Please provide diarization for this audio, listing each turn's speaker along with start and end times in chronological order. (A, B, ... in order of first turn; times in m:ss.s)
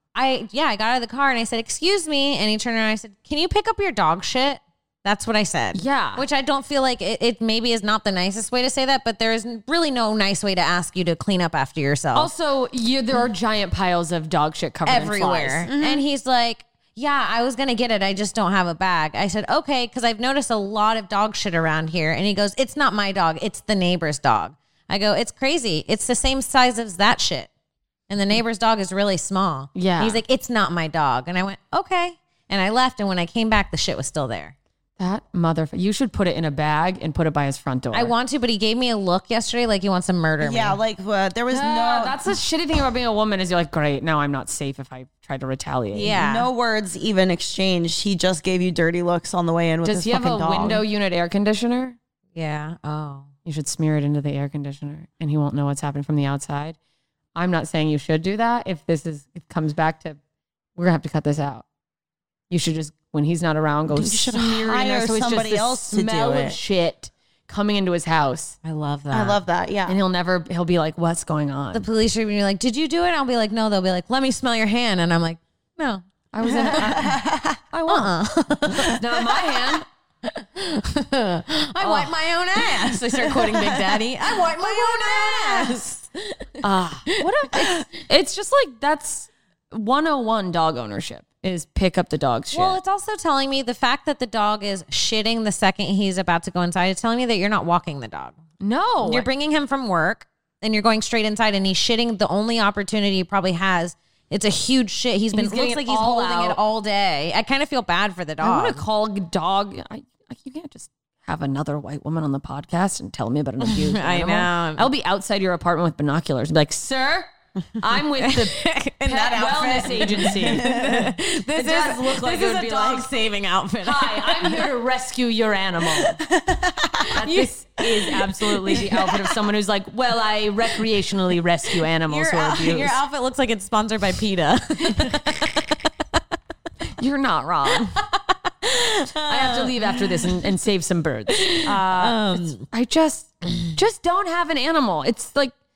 0:00.1-0:12.3 A
0:05.7-0:06.2 B
0:12.1-0:15.7 B
0:14.9-0:27.5 A
0:15.7-0:16.0 C
0:28.1-0:34.5 A
0:29.8-0:30.2 B
0:35.0-0:38.1 B
0:37.9-0:40.8 A
0:40.4-0:42.2 C
0:41.5-0:46.2 B
0:45.9-0:46.5 A
0:46.1-0:50.8 C
0:49.8-0:52.0 B
0:52.4-0:53.3 A
0:53.4-0:56.8 B
0:57.4-1:00.2 B
1:00.8-1:01.6 B
1:02.5-1:08.6 B
1:03.9-1:06.6 C
1:08.6-1:09.4 A
1:09.1-1:10.0 C
1:09.9-1:11.9 B
1:11.7-1:16.0 A
1:16.3-1:17.2 B
1:16.4-1:17.6 C
1:17.7-1:18.1 B
1:17.9-1:19.0 A
1:18.7-1:19.8 B
1:20.2-1:27.8 A
1:21.8-1:22.1 B
1:23.3-1:24.0 C
1:24.8-1:25.8 B
1:26.6-1:32.8 B
1:32.5-1:38.4 A
1:38.6-1:39.3 B
1:39.0-1:48.8 A
1:45.3-1:46.6 B
1:48.4-2:00.8 B
1:53.6-1:54.9 A
1:58.2-2:04.6 A
2:00.1-2:01.1 C
2:01.5-2:03.1 B
2:03.8-2:06.2 B
2:06.3-2:07.0 C
2:07.0-2:07.5 A
2:07.1-2:13.0 B
2:08.7-2:09.1 A
2:12.1-2:15.8 A
2:17.0-2:17.9 B
2:17.9-2:20.4 A
2:19.3-2:25.5 B
2:21.3-2:22.6 A